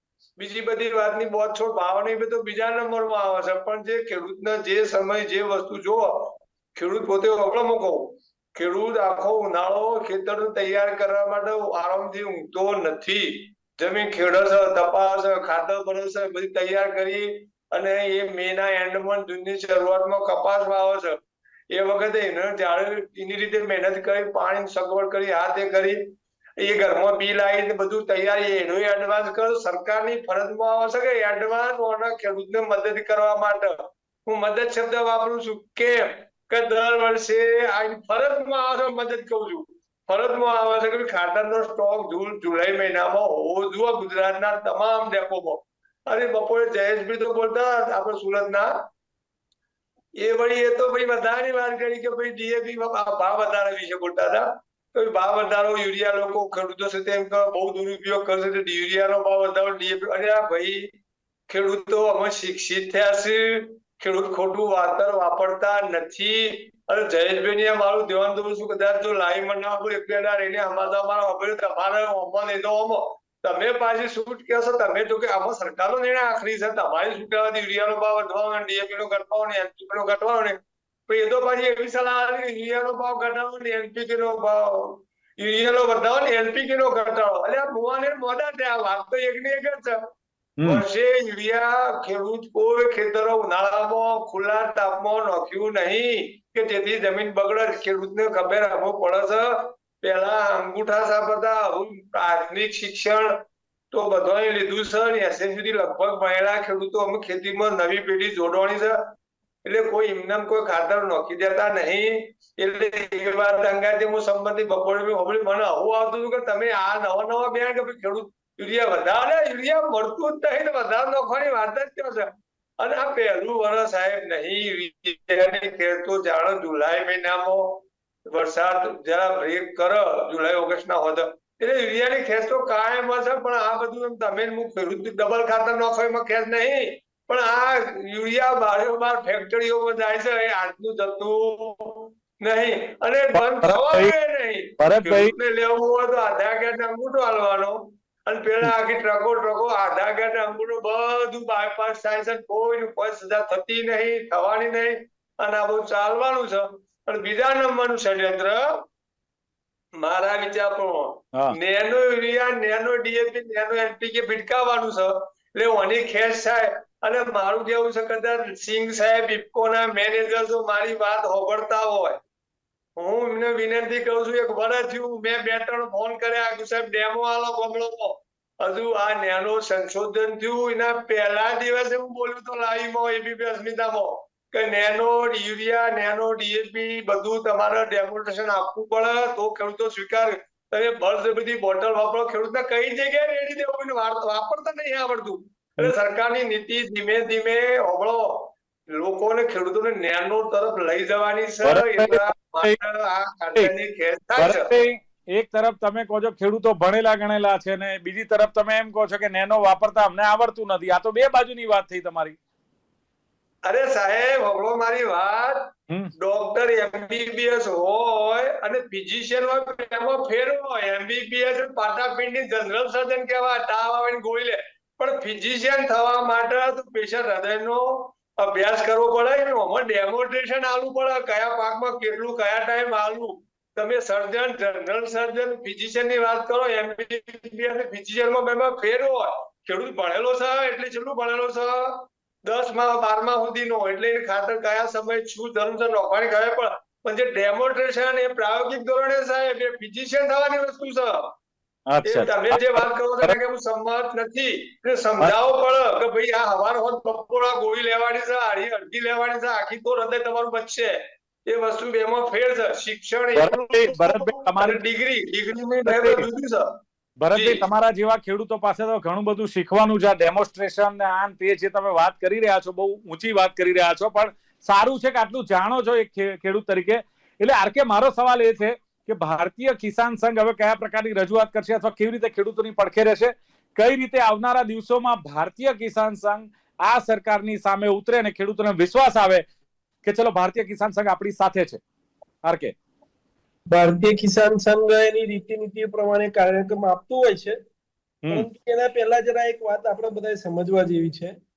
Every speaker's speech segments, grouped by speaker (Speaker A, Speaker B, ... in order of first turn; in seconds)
Speaker A: 0.4-48.7, 50.2-60.9, 61.5-90.0, 90.6-103.4, 103.9-109.1, 109.6-158.8, 160.0-172.2, 172.9-204.7, 213.6-251.3, 252.1-266.7, 267.3-267.6
Speaker B: 90.6-90.8, 143.3-144.1, 144.8-145.3, 201.6-202.8, 204.4-212.4, 251.9-253.4, 263.4-264.8, 265.9-266.2, 267.2-289.4, 290.0-291.8, 292.4-292.7
Speaker C: 293.7-297.6, 298.3-301.3